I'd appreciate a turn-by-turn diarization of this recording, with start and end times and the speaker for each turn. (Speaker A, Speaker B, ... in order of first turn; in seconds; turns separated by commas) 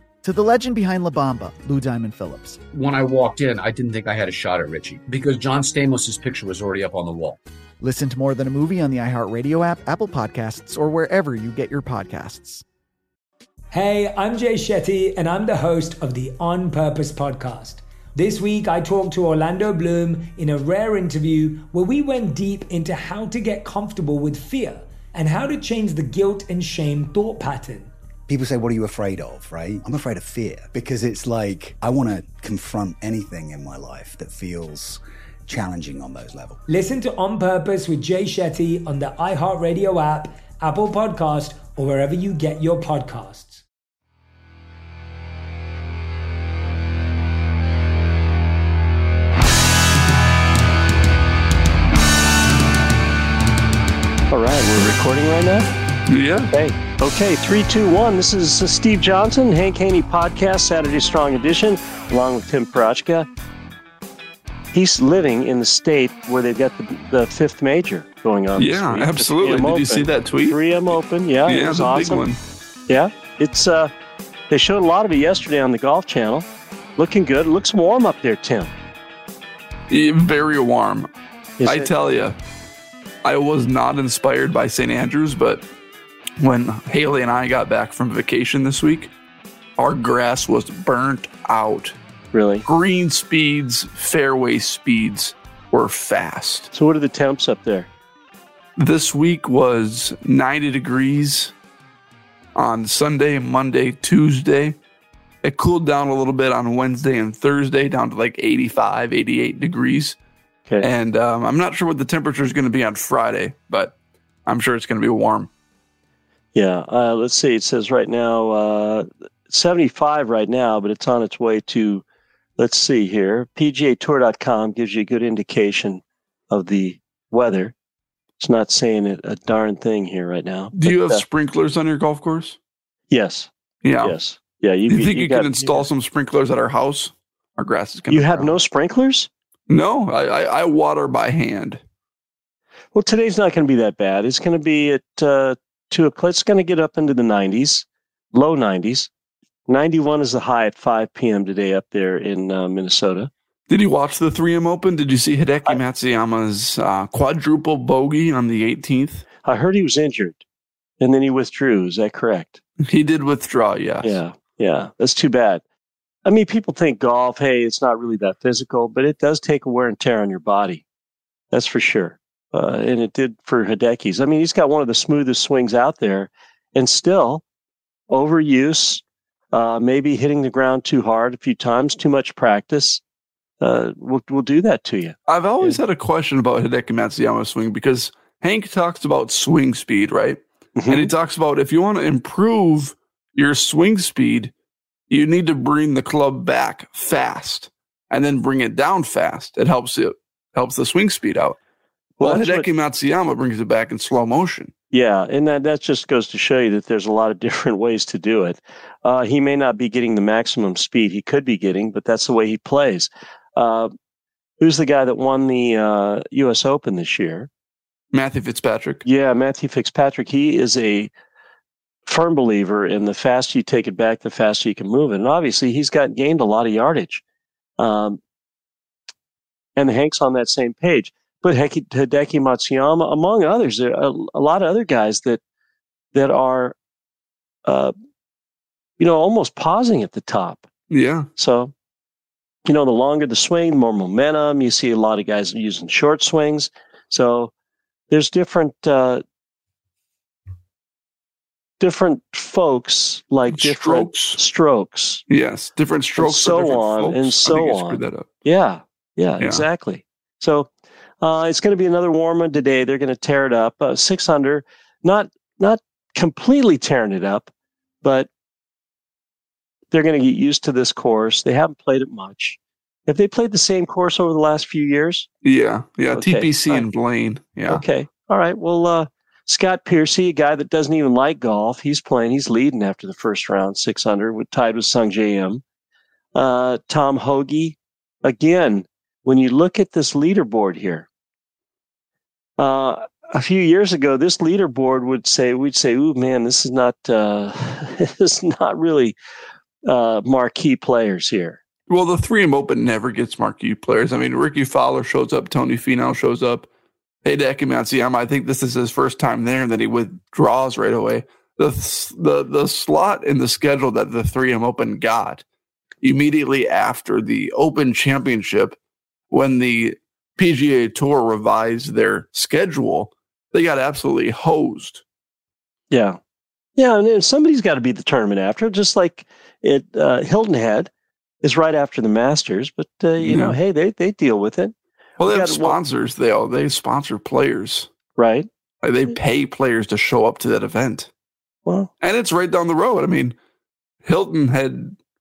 Speaker A: 0.2-2.6, Speaker B: 2.7-7.4, Speaker A: 7.8-12.6, Speaker C: 13.7-27.9, Speaker D: 28.3-36.6, Speaker C: 36.7-43.6, Speaker E: 54.3-55.7, Speaker F: 56.1-56.5, Speaker E: 56.5-63.3, Speaker E: 64.7-72.2, Speaker F: 68.6-70.6, Speaker F: 71.5-72.4, Speaker E: 72.9-73.9, Speaker E: 74.5-78.7, Speaker F: 79.9-81.1, Speaker E: 81.6-81.9, Speaker F: 81.7-82.3, Speaker F: 83.2-85.6, Speaker F: 86.4-89.1, Speaker F: 89.8-91.9, Speaker E: 92.3-92.6, Speaker F: 92.6-96.7, Speaker E: 96.7-97.9, Speaker F: 98.8-101.5, Speaker F: 102.5-104.8, Speaker F: 105.4-110.2, Speaker F: 110.8-113.9, Speaker F: 114.5-115.5, Speaker E: 116.5-122.0, Speaker E: 122.6-127.7, Speaker E: 128.4-131.2, Speaker F: 130.7-132.6, Speaker E: 133.1-133.5, Speaker F: 133.8-134.2, Speaker E: 134.0-135.8, Speaker F: 134.9-138.5, Speaker E: 138.1-139.3, Speaker F: 139.7-141.8, Speaker E: 142.9-149.1, Speaker E: 149.7-153.3, Speaker F: 153.7-159.2, Speaker E: 159.4-160.4, Speaker E: 161.0-162.6, Speaker F: 162.8-164.2, Speaker E: 164.0-165.6, Speaker E: 166.2-170.8, Speaker E: 171.5-177.4, Speaker E: 178.1-183.0, Speaker E: 183.6-185.8, Speaker F: 185.3-194.5, Speaker E: 190.8-191.1, Speaker F: 195.1-201.6, Speaker E: 202.2-202.7, Speaker F: 202.2-204.7, Speaker E: 204.9-213.9, Speaker E: 214.6-217.5, Speaker F: 218.1-219.0, Speaker E: 219.0-221.1, Speaker E: 222.1-227.2, Speaker E: 227.8-228.2, Speaker E: 229.8-235.4, Speaker E: 236.1-236.7, Speaker E: 237.7-237.9, Speaker E: 239.0-240.7, Speaker F: 240.9-241.3, Speaker E: 241.4-241.7, Speaker E: 242.7-247.5, Speaker E: 248.1-249.2, Speaker E: 251.8-255.2, Speaker F: 253.5-254.4, Speaker F: 255.3-258.3, Speaker E: 256.2-267.5, Speaker E: 268.0-268.3, Speaker E: 269.9-275.3, Speaker F: 275.4-277.8, Speaker E: 276.1-276.8, Speaker E: 277.7-285.6, Speaker E: 286.3-291.1, Speaker E: 292.6-299.1, Speaker E: 299.8-301.6, Speaker F: 301.9-306.7, Speaker F: 307.2-315.4, Speaker F: 316.0-318.8, Speaker F: 319.3-325.0, Speaker E: 325.9-326.2, Speaker E: 326.8-330.9, Speaker E: 331.4-335.8, Speaker F: 333.2-333.6, Speaker F: 335.2-337.9, Speaker E: 338.1-338.5, Speaker F: 338.8-341.1, Speaker F: 342.0-343.4, Speaker F: 344.0-344.9